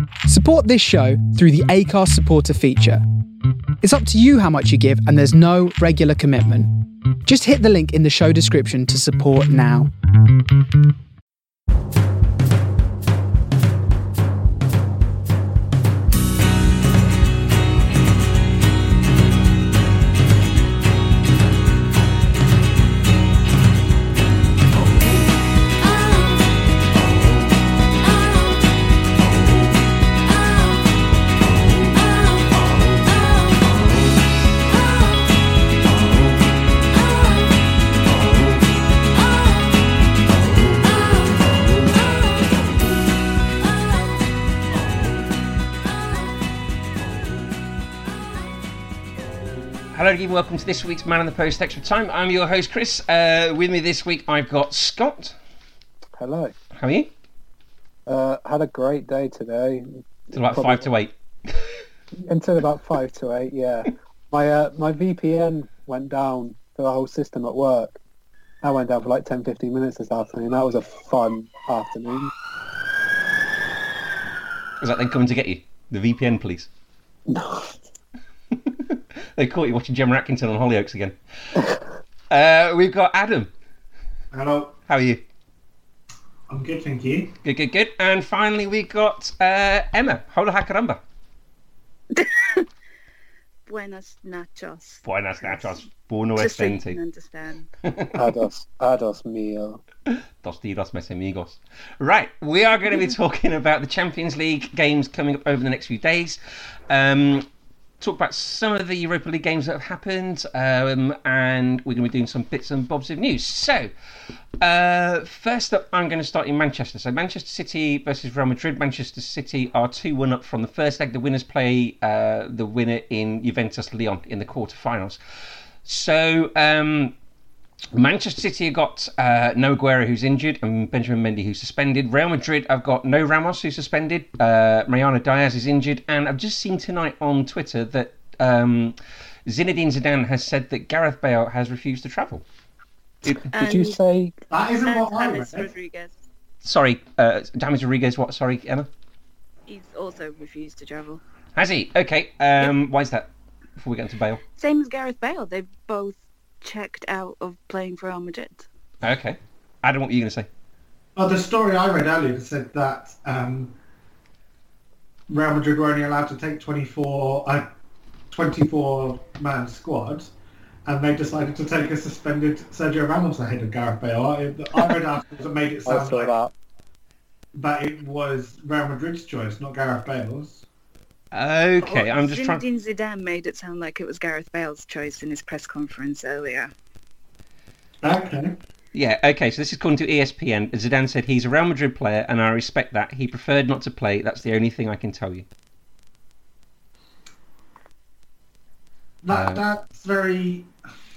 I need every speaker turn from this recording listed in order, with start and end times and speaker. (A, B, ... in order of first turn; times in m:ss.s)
0:00.3-0:03.0 A
0:03.8-0:06.7 A
0:07.2-0:09.9 A
0:49.9-0:55.3 B
0:56.2-0:56.5 C
0:56.8-0:57.1 B
0:58.0-1:00.9 C
1:00.3-1:01.8 B
1:02.1-1:08.0 C
1:08.6-1:12.3 C
1:14.8-1:16.7 B
1:17.3-1:17.8 C
1:18.5-1:21.6 B
1:22.3-1:23.5 B
1:24.3-1:24.8 D
1:24.9-1:25.2 B
1:26.5-1:27.3 D
1:27.4-1:31.0 B
1:32.1-1:32.7 E
1:33.7-1:35.8 E
1:35.0-1:37.0 B
1:36.4-1:37.7 E
1:37.8-1:38.2 B
1:38.1-1:39.8 C
1:40.1-1:47.4 B
1:48.0-1:53.9 B
1:54.6-2:05.2 B
2:05.8-2:07.1 B
2:07.9-2:22.4 B
2:23.5-2:24.0 E
2:23.5-2:24.4 C
2:24.5-2:25.7 D
2:24.8-2:26.1 E
2:26.6-2:28.9 B
2:29.7-2:31.2 E
2:31.5-2:34.4 B
2:34.6-2:38.7 E
2:39.0-2:40.5 B
2:41.2-2:43.8 D
2:45.3-2:47.7 D
2:48.3-2:50.3 D
2:50.8-2:56.3 D
2:55.8-2:56.5 C
2:57.5-3:00.6 D
3:01.3-3:02.6 B
3:01.8-3:06.7 E
3:08.0-3:08.5 D
3:08.9-3:15.4 B
3:19.2-3:20.7 D
3:19.3-3:19.6 B